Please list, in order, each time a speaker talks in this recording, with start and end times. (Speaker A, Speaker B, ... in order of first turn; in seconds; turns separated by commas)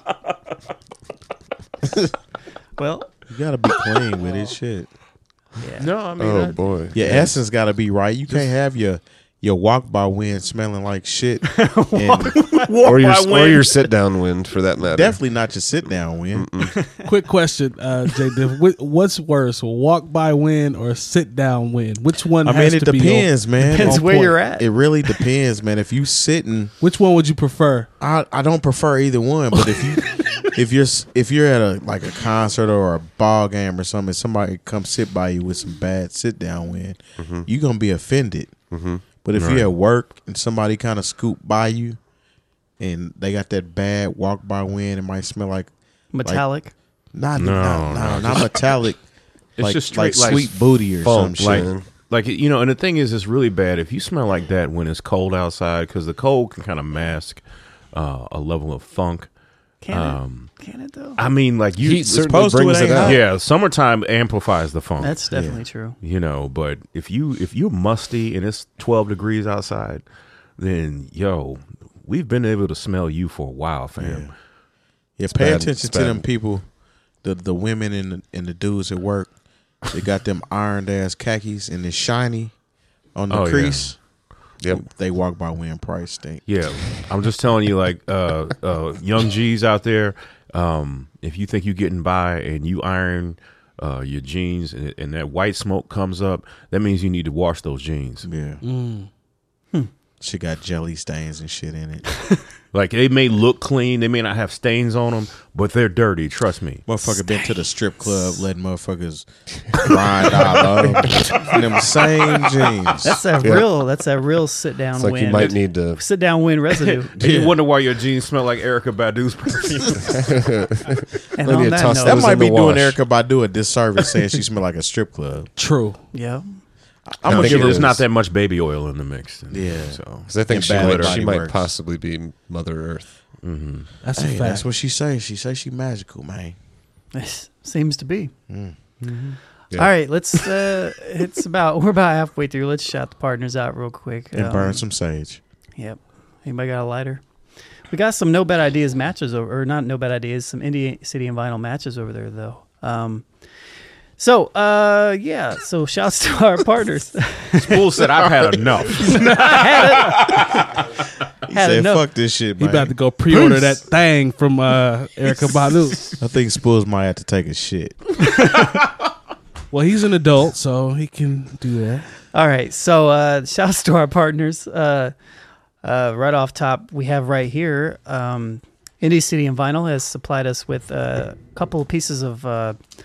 Speaker A: 2.8-3.1, Speaker B: 3.3-4.9, Speaker A: 5.6-5.9, Speaker C: 5.8-7.2, Speaker D: 6.2-7.3, Speaker B: 6.9-12.5, Speaker A: 11.4-13.0, Speaker C: 12.5-13.8, Speaker D: 12.8-15.2, Speaker B: 14.8-16.5, Speaker D: 16.3-16.8, Speaker A: 16.6-17.1, Speaker E: 17.0-24.4, Speaker B: 22.4-26.7, Speaker A: 23.7-25.2, Speaker E: 26.8-27.9, Speaker B: 28.0-38.6, Speaker D: 37.2-37.5, Speaker D: 38.7-39.0, Speaker B: 39.2-42.0, Speaker C: 39.4-39.7, Speaker B: 42.8-45.7, Speaker A: 46.1-46.7, Speaker B: 47.1-49.0, Speaker C: 47.4-48.6, Speaker C: 49.6-50.5, Speaker B: 49.6-51.7, Speaker D: 50.2-50.5, Speaker D: 51.0-51.9, Speaker C: 51.4-57.4, Speaker C: 57.9-59.3, Speaker A: 59.8-61.2, Speaker C: 59.9-60.5, Speaker C: 61.2-65.2, Speaker D: 61.8-63.2, Speaker B: 62.3-63.2, Speaker A: 65.0-66.0, Speaker B: 65.3-65.6, Speaker C: 66.0-70.0, Speaker C: 70.6-74.3, Speaker B: 74.0-74.3, Speaker B: 75.2-76.7, Speaker D: 75.3-76.2, Speaker B: 77.2-82.6, Speaker B: 83.2-84.0, Speaker C: 83.3-84.0, Speaker B: 84.7-86.4, Speaker C: 86.5-98.3, Speaker B: 98.2-98.6, Speaker E: 98.6-99.1, Speaker B: 100.2-102.0, Speaker C: 102.7-106.8, Speaker B: 106.9-113.2, Speaker A: 107.0-108.5, Speaker A: 113.0-117.2, Speaker D: 113.4-113.7, Speaker D: 115.0-116.0, Speaker C: 116.8-120.3, Speaker B: 117.2-117.5, Speaker D: 120.0-123.0, Speaker A: 121.4-122.4, Speaker B: 122.0-125.5, Speaker E: 125.6-126.0, Speaker A: 126.1-126.5, Speaker B: 127.1-128.0, Speaker D: 127.2-128.0, Speaker C: 127.2-131.2, Speaker B: 129.5-131.7, Speaker D: 130.3-133.1, Speaker C: 133.4-133.9, Speaker E: 134.0-134.7, Speaker B: 134.2-136.6, Speaker A: 137.1-138.3, Speaker B: 138.5-138.8, Speaker C: 139.0-139.4, Speaker A: 139.7-144.8, Speaker B: 144.3-145.4, Speaker A: 145.8-147.2, Speaker A: 147.9-153.3, Speaker A: 154.2-158.0, Speaker C: 157.6-160.8, Speaker A: 158.9-160.6, Speaker B: 161.5-162.9, Speaker A: 161.5-162.1, Speaker E: 162.6-166.1, Speaker B: 166.2-168.2, Speaker E: 169.7-172.1, Speaker A: 172.3-175.1, Speaker A: 175.8-182.8